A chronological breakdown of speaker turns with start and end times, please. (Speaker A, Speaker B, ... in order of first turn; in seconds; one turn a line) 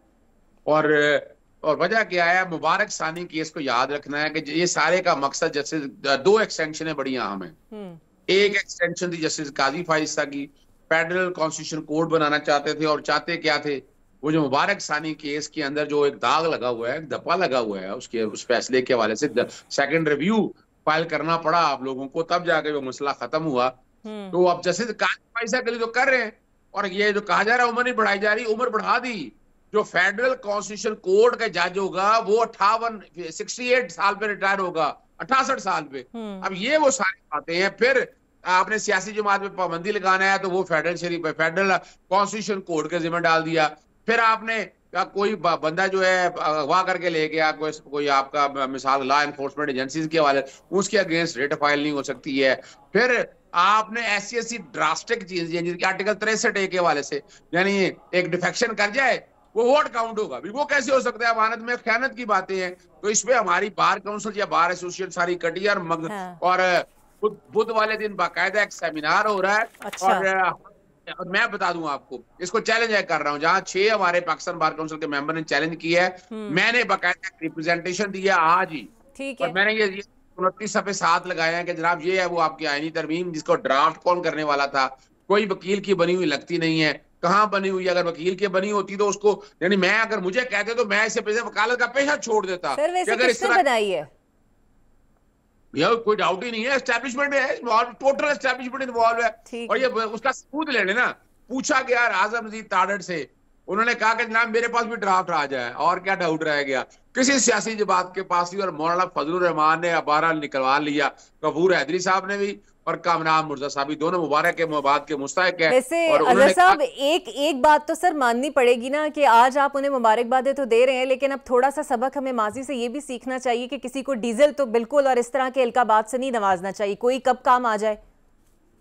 Speaker A: 0.7-7.5
Speaker B: 7.7-8.0
Speaker A: 8.3-23.8
Speaker B: 24.0-24.4
Speaker A: 24.3-93.6
Speaker B: 36.1-36.5
Speaker B: 66.1-66.4
Speaker B: 69.8-70.2
Speaker B: 76.3-76.6
Speaker B: 79.1-79.5
Speaker B: 92.8-94.1
Speaker A: 95.7-116.8
Speaker B: 99.5-99.9
Speaker B: 115.7-128.0